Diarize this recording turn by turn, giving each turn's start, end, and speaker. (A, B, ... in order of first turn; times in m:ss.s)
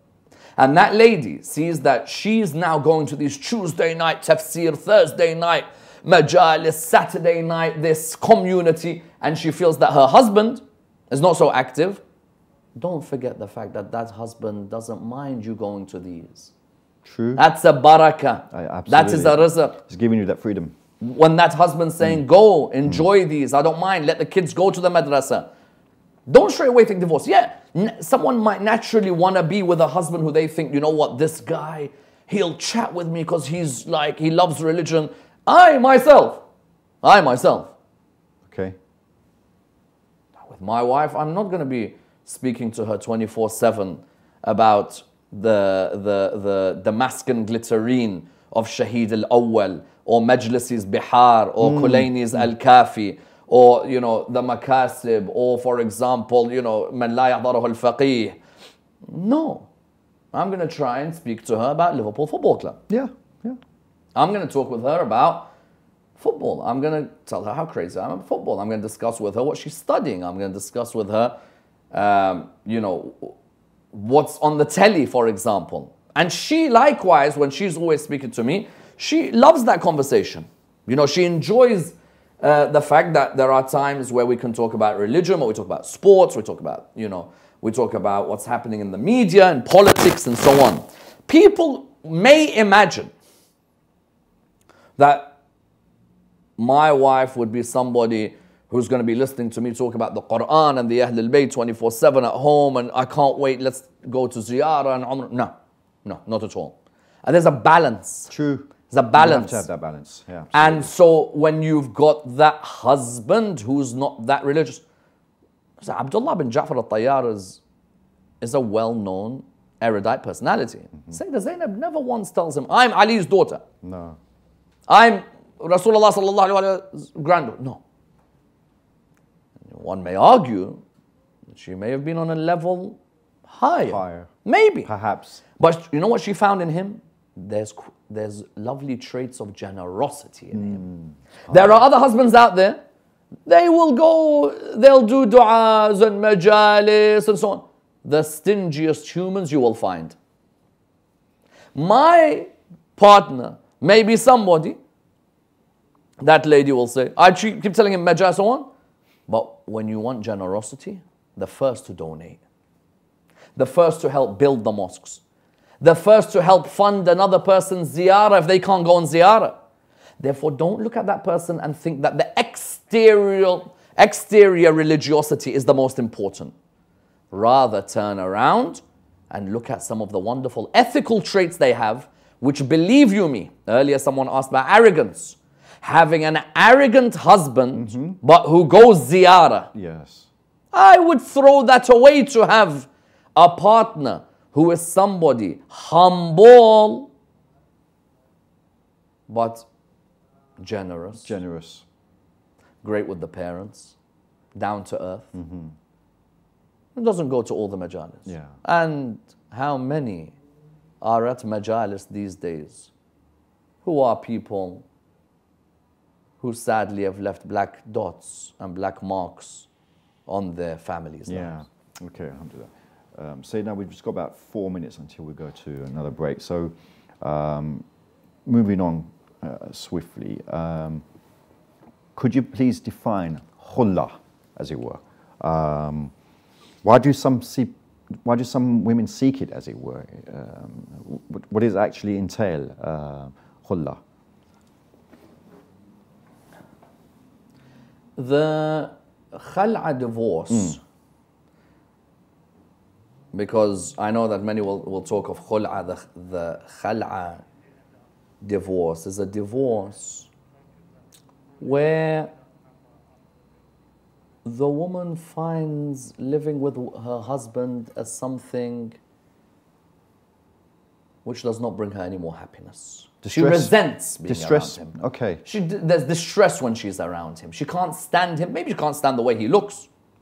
0:00.6-0:12.0 A
0:12.8-0:16.5 A
0:17.0-0:17.4 B
0:17.4-0:19.8 A
0:18.5-0:20.8 B
0:21.0-0:25.5 A
0:26.3-0:36.4 A
0:37.0-0:37.7 A
0:38.5-0:38.8 B
0:40.5-0:58.4 A
0:51.6-0:52.1 B
0:59.1-0:59.7 A
1:00.3-1:02.8 A
1:02.9-1:03.6 B
1:04.2-1:05.5 A
1:06.2-1:11.4 A
1:11.9-1:13.4 A
1:13.9-1:33.1 A
1:35.0-1:35.4 A
1:36.6-1:45.5 A
1:46.0-1:48.3 A
1:48.3-1:50.9 B
1:48.9-1:49.7 A
1:50.5-1:54.8 A
1:55.8-1:57.6 A
1:58.4-2:03.6 A
2:03.8-2:04.2 B
2:04.9-2:07.8 A
2:09.7-2:10.8 A
2:11.5-2:14.9 A
2:13.9-2:14.3 B
2:14.8-2:15.4 B
2:15.6-2:20.8 A
2:20.5-2:21.8 B
2:21.5-2:22.8 A
2:23.5-2:30.2 A
2:31.8-2:34.8 A
2:36.2-2:38.7 A
2:39.3-2:42.4 A
2:43.6-2:45.2 A
2:45.8-2:49.6 A
2:50.2-2:56.5 A
2:57.3-3:09.7 A
3:07.7-3:08.2 B
3:09.7-3:10.3 B
3:10.7-3:17.1 A
3:19.3-3:19.7 A
3:20.6-3:21.3 A
3:21.2-3:21.8 B
3:22.8-3:24.0 A
3:24.6-3:25.3 A
3:25.3-3:25.8 B
3:27.0-3:30.4 A
3:28.3-3:28.6 B
3:31.0-3:32.9 A
3:33.8-3:34.9 A
3:36.4-3:39.7 A
3:40.3-3:41.6 A
3:41.3-3:47.8 B
3:48.5-3:51.0 B
3:52.2-3:56.1 B
3:56.8-4:04.0 B
4:08.2-4:10.8 A
4:10.5-4:10.8 B
4:13.3-4:17.4 A
4:18.4-4:20.3 A
4:21.6-4:22.3 A
4:24.4-4:29.0 A
4:31.2-4:39.9 A
4:33.2-4:35.4 B